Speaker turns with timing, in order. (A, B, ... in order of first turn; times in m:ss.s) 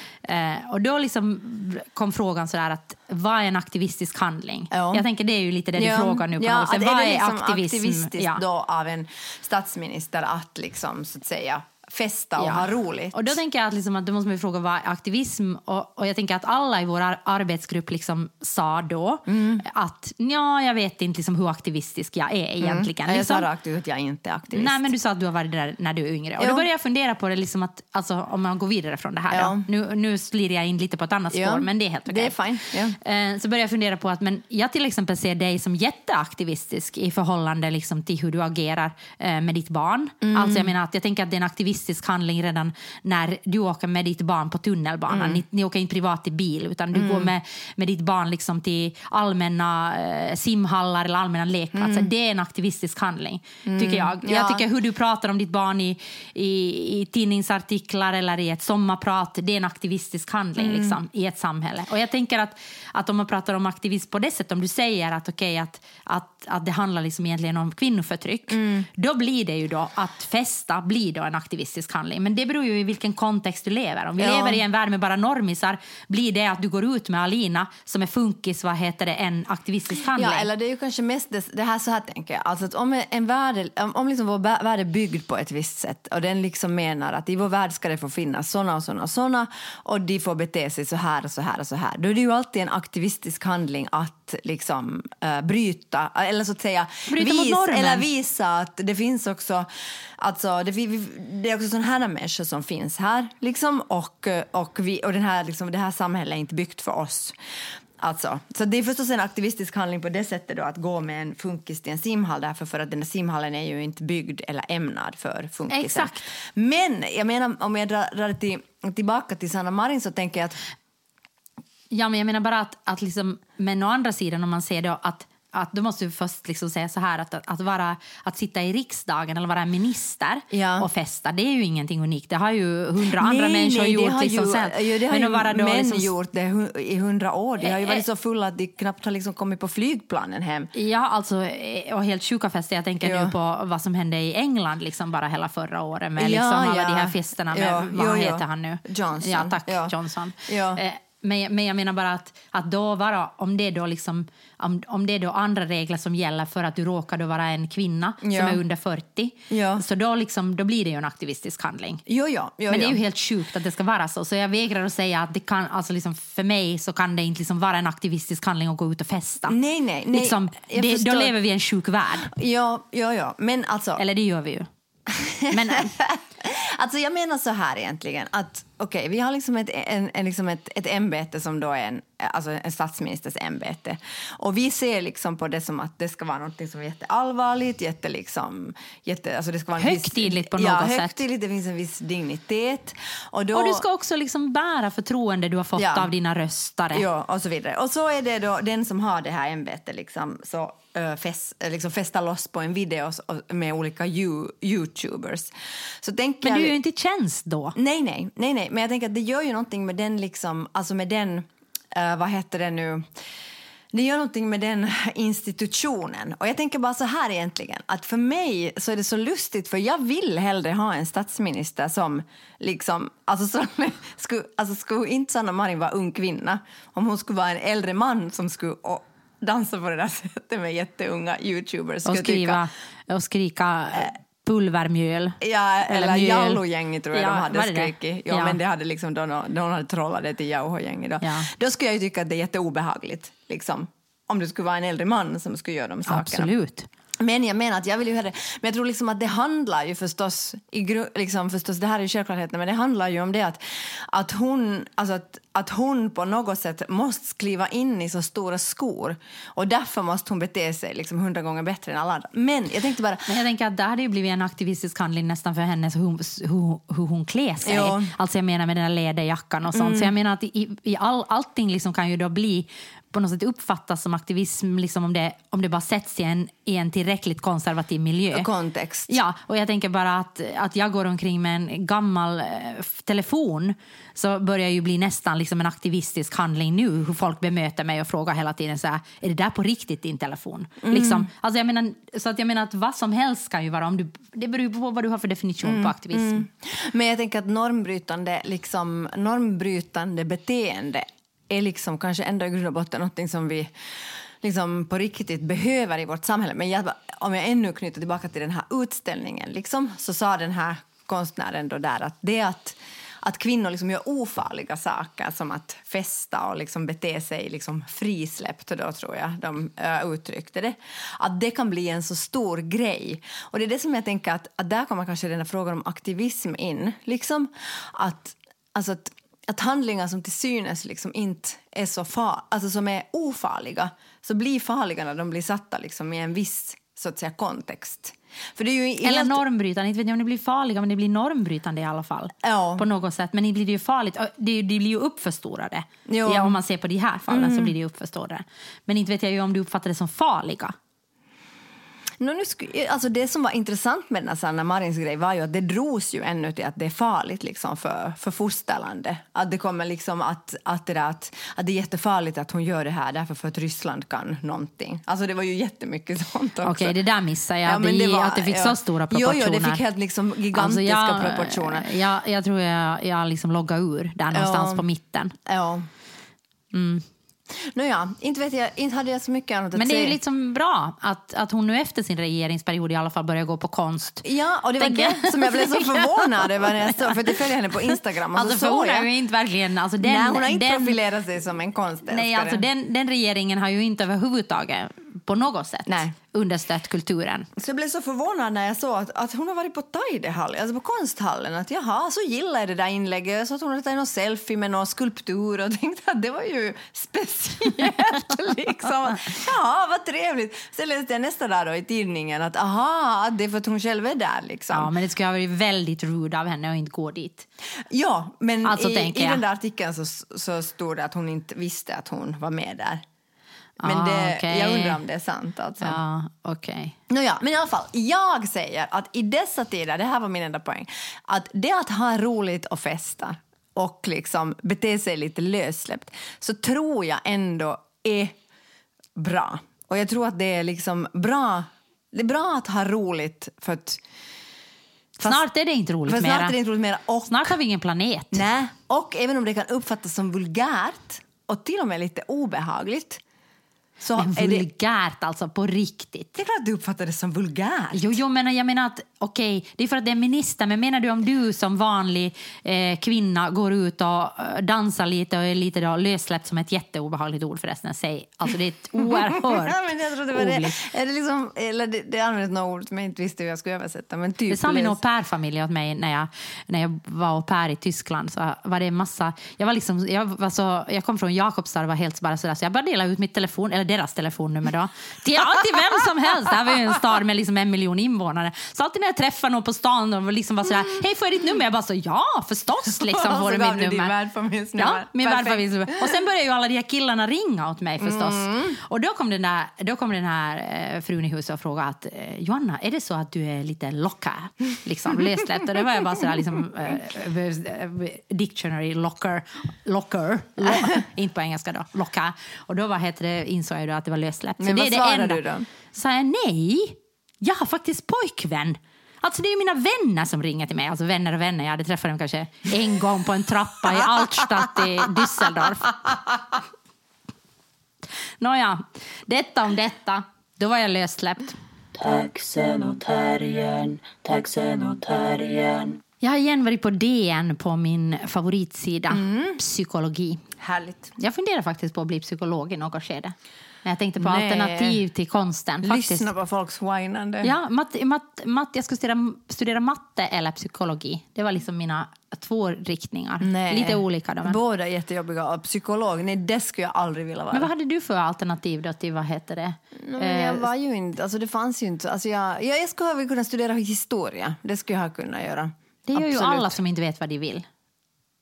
0:00.2-0:08.4 A
0:04.7-0:05.0 B
0:05.8-0:13.4 B
0:12.4-0:23.5 A
0:19.3-0:19.6 B
0:22.6-0:24.9 B
0:24.5-1:20.5 A
0:26.4-0:26.7 B
0:29.3-0:29.7 B
0:31.3-0:33.0 B
0:40.2-0:40.7 B
0:45.1-0:45.4 B
0:46.9-0:47.3 B
0:51.7-0:52.1 B
0:53.6-0:54.6 B
1:00.6-1:01.0 B
1:08.5-1:08.9 B
1:14.2-1:14.6 B
1:20.1-1:47.4 B
1:37.1-1:38.0 A
1:48.0-2:00.6 B
1:55.7-1:56.3 A
2:01.9-2:16.1 A
2:10.5-2:10.9 B
2:13.0-2:20.7 B
2:17.6-2:18.0 A
2:20.7-2:42.0 A
2:23.0-2:23.4 B
2:26.2-2:30.0 B
2:30.5-2:30.8 B
2:38.2-2:38.6 B
2:39.5-2:39.8 B
2:42.1-2:43.0 B
2:42.7-2:49.6 A
2:49.5-2:51.4 B
2:50.1-2:52.3 A
2:52.2-2:54.0 B
2:54.0-2:54.7 A
2:55.1-3:13.8 B
2:55.5-2:55.9 A
3:09.8-3:11.2 A
3:13.5-3:17.0 A
3:15.8-3:16.1 B
3:16.9-3:26.8 B
3:26.4-3:27.8 A
3:27.8-3:33.0 B
3:33.9-3:52.6 B
3:52.0-3:58.6 A
3:55.4-4:06.5 B
4:01.2-4:01.5 A
4:06.0-4:06.9 A
4:07.2-4:23.3 B
4:23.3-4:38.5 A
4:27.6-4:28.1 B
4:29.7-4:30.1 B
4:38.3-4:39.1 B
4:39.1-4:56.5 A
4:50.8-4:51.3 B
4:55.6-5:39.4 B
5:39.0-5:50.8 A
5:42.4-5:42.8 B
5:46.0-5:46.6 B
5:47.3-5:47.7 B
5:52.2-6:07.0 B
6:06.6-6:09.8 A
6:07.6-6:11.9 B
6:10.5-6:15.3 A
6:14.3-6:14.9 B
6:15.5-6:15.9 B
6:16.7-6:17.0 A
6:17.5-6:20.2 B
6:19.8-6:24.2 A
6:24.2-6:29.1 B
6:24.8-6:27.5 A
6:28.3-6:31.0 A
6:30.0-6:32.7 B
6:32.1-6:37.5 A
6:35.9-6:36.1 B
6:37.6-6:54.9 B
6:54.7-6:57.5 A
6:57.9-7:03.0 B
6:58.6-6:59.4 A
7:03.8-7:06.0 B
7:03.8-7:05.0 A
7:05.8-7:07.0 A
7:07.1-7:18.4 B
7:19.2-7:24.0 B
7:25.2-7:26.5 A
7:26.0-7:27.6 B
7:27.3-7:28.4 A
7:28.3-7:33.2 B
7:34.0-7:34.7 B
7:34.2-7:36.4 A
7:36.4-7:38.2 B
7:37.9-7:50.8 A
7:49.0-7:55.0 B
7:54.5-8:14.1 A
8:12.9-8:16.2 B
8:14.8-8:46.0 A
8:18.0-8:18.8 B
8:34.6-8:35.7 B
8:48.4-8:51.6 A
8:52.0-8:56.0 C
8:56.2-9:00.4 A
8:59.1-8:59.6 B
9:00.6-9:01.1 B
9:01.2-9:06.3 A
9:04.2-9:05.0 B
9:05.8-9:07.5 B
9:07.4-9:14.6 A
9:13.4-9:17.7 B
9:17.5-9:20.7 A
9:20.0-9:26.8 B
9:26.1-9:27.6 A